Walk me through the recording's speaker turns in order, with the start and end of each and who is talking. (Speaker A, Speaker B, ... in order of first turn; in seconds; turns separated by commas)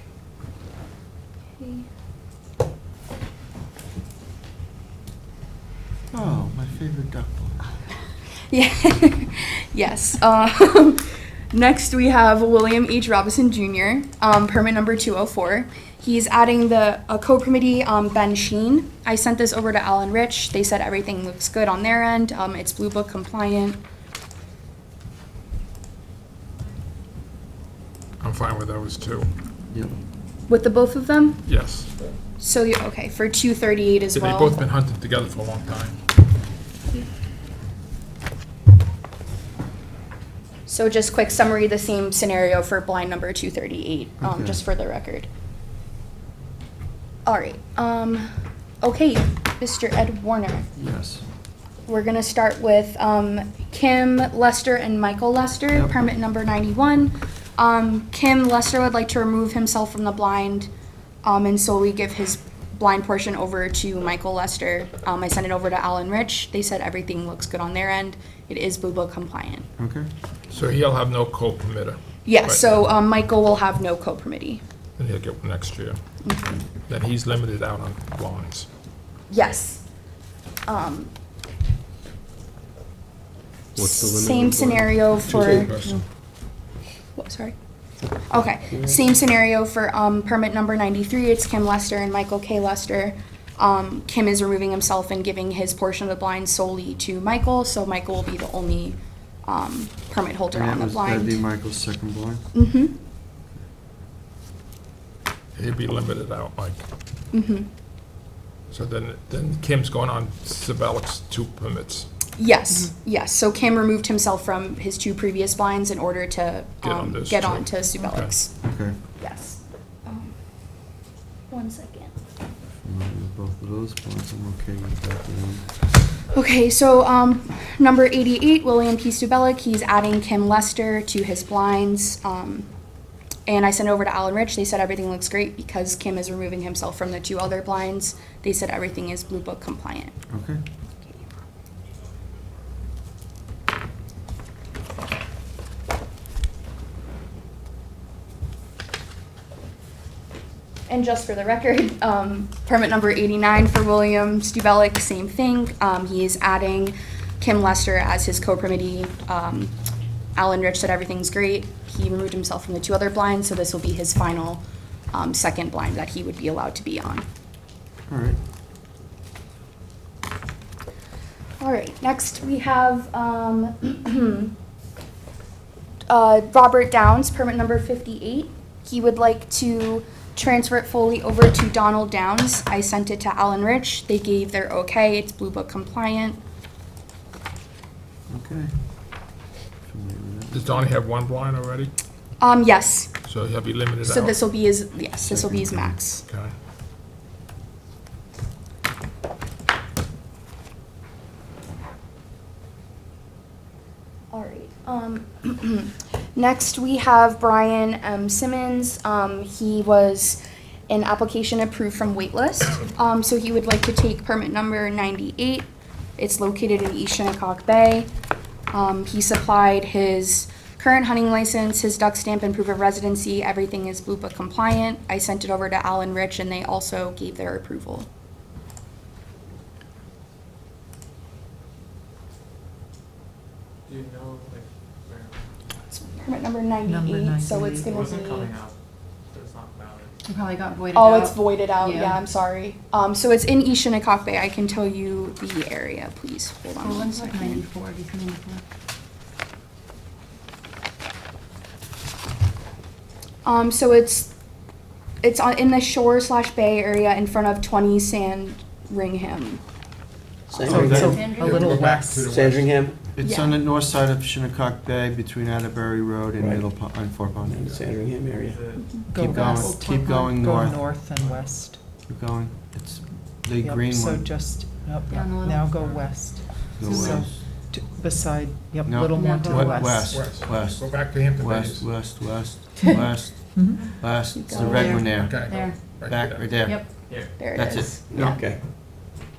Speaker A: 1.5-1.9, Speaker B: 6.1-7.7, Speaker A: 8.5-23.8, Speaker C: 28.2-29.3, Speaker B: 29.7-30.0, Speaker A: 30.5-31.5, Speaker C: 31.4-31.9, Speaker A: 32.4-34.6, Speaker C: 34.1-36.0, Speaker A: 40.6-45.3, Speaker B: 44.2-44.6, Speaker A: 47.2-48.3, Speaker A: 48.8-50.7, Speaker B: 50.8-51.2, Speaker A: 51.9-60.7, Speaker A: 61.2-69.7, Speaker B: 69.8-70.1, Speaker C: 70.5-72.7, Speaker A: 72.2-74.6, Speaker C: 75.0-76.0, Speaker A: 76.2-76.6, Speaker C: 76.8-78.7, Speaker A: 79.3-79.8, Speaker A: 80.7-81.1, Speaker A: 83.8-85.7, Speaker D: 85.3-85.8, Speaker C: 85.4-86.0, Speaker A: 87.1-87.5, Speaker A: 88.1-101.4, Speaker D: 88.7-89.0, Speaker B: 100.5-102.5, Speaker A: 102.5-103.0, Speaker C: 105.5-106.8, Speaker A: 107.3-107.7, Speaker C: 108.7-112.1, Speaker A: 112.4-120.3, Speaker C: 116.8-118.3, Speaker B: 118.6-119.0, Speaker A: 121.5-122.1, Speaker B: 122.8-125.7, Speaker A: 126.3-132.7, Speaker A: 133.4-140.1, Speaker B: 140.3-140.6, Speaker A: 150.9-159.7, Speaker A: 160.3-167.2, Speaker B: 168.1-168.4, Speaker A: 171.6-174.5, Speaker A: 176.1-186.4, Speaker B: 188.3-189.2, Speaker B: 189.8-190.7, Speaker C: 190.5-191.9, Speaker A: 192.4-193.1, Speaker C: 193.2-194.4, Speaker A: 194.0-196.2, Speaker B: 195.2-196.0, Speaker C: 196.2-196.5, Speaker A: 204.3-218.1, Speaker A: 218.7-228.1, Speaker E: 233.9-235.4, Speaker A: 235.9-238.5, Speaker F: 236.8-238.1, Speaker E: 237.9-240.1, Speaker G: 240.2-242.3, Speaker A: 240.9-247.7, Speaker G: 246.8-248.6, Speaker A: 253.4-254.3, Speaker A: 255.2-259.6, Speaker A: 260.5-261.1, Speaker D: 260.5-261.3, Speaker F: 260.6-262.3, Speaker C: 260.9-262.9, Speaker G: 261.0-261.6, Speaker D: 262.2-263.0, Speaker B: 263.1-267.6, Speaker A: 263.2-263.6, Speaker D: 266.4-266.7, Speaker D: 267.4-268.6, Speaker C: 267.6-267.9, Speaker E: 268.3-268.9, Speaker F: 269.0-271.8, Speaker B: 269.1-270.9, Speaker G: 269.4-269.9, Speaker B: 272.0-274.4, Speaker F: 273.6-280.3, Speaker G: 275.1-277.3, Speaker B: 276.8-277.4, Speaker B: 278.8-288.4, Speaker G: 279.1-279.8, Speaker C: 280.1-282.1, Speaker F: 282.8-284.2, Speaker A: 284.3-284.9, Speaker G: 284.5-285.9, Speaker C: 284.8-286.6, Speaker G: 286.6-286.9, Speaker E: 287.1-287.4, Speaker A: 287.4-288.4, Speaker D: 288.1-288.6